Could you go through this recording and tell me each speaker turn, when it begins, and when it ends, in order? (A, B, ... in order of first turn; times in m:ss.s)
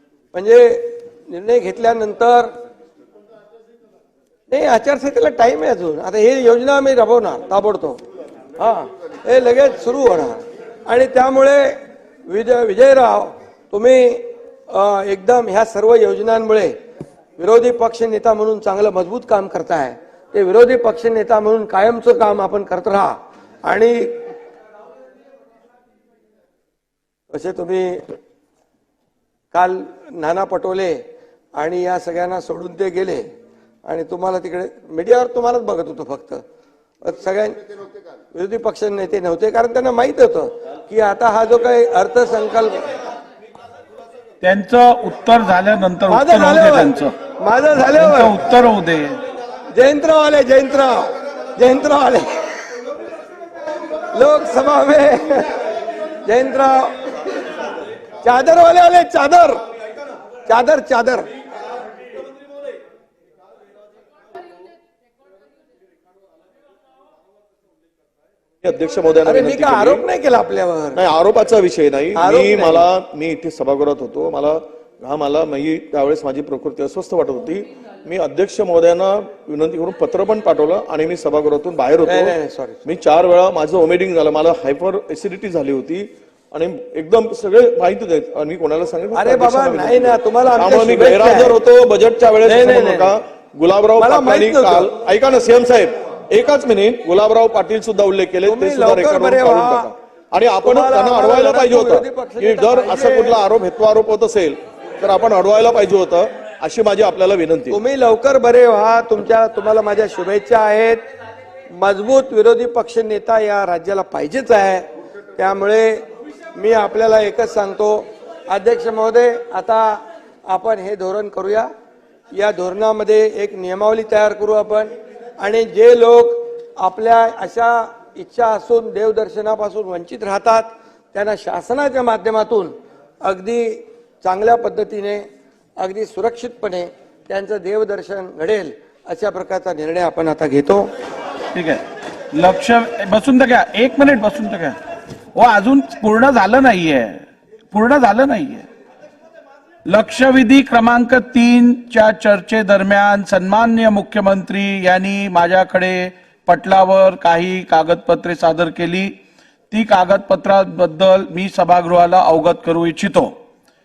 0:00.3-0:02.5 A
0:04.5-0:08.0 A
0:08.6-0:16.7 A
0:17.4-0:24.2 A
0:27.3-0:28.0 A
0:29.5-0:31.0 A
0:31.6-0:33.3 A
0:33.8-0:36.4 A
0:37.0-0:37.6 A
0:38.3-0:42.8 A
0:44.4-0:47.1 B
0:46.1-0:48.4 A
0:48.0-0:49.2 B
0:49.7-0:52.3 A
0:54.1-0:55.6 A
0:56.2-0:57.2 A
0:58.2-0:59.6 A
1:00.5-1:01.3 A
1:08.6-1:10.0 C
1:09.2-1:11.0 A
1:11.0-1:22.3 C
1:12.2-1:12.9 A
1:22.0-1:22.8 A
1:22.8-1:47.8 C
1:29.1-1:31.6 A
1:32.4-1:33.1 A
1:34.0-1:34.9 A
1:38.4-1:39.9 A
1:40.6-1:43.4 A
1:47.7-1:51.0 A
1:51.7-2:01.7 A
2:02.3-2:15.2 A
2:15.8-2:20.9 A
2:21.5-2:21.8 B
2:22.3-2:24.8 B
2:25.4-2:28.6 B
2:29.9-2:39.1 B
2:39.7-2:43.3 B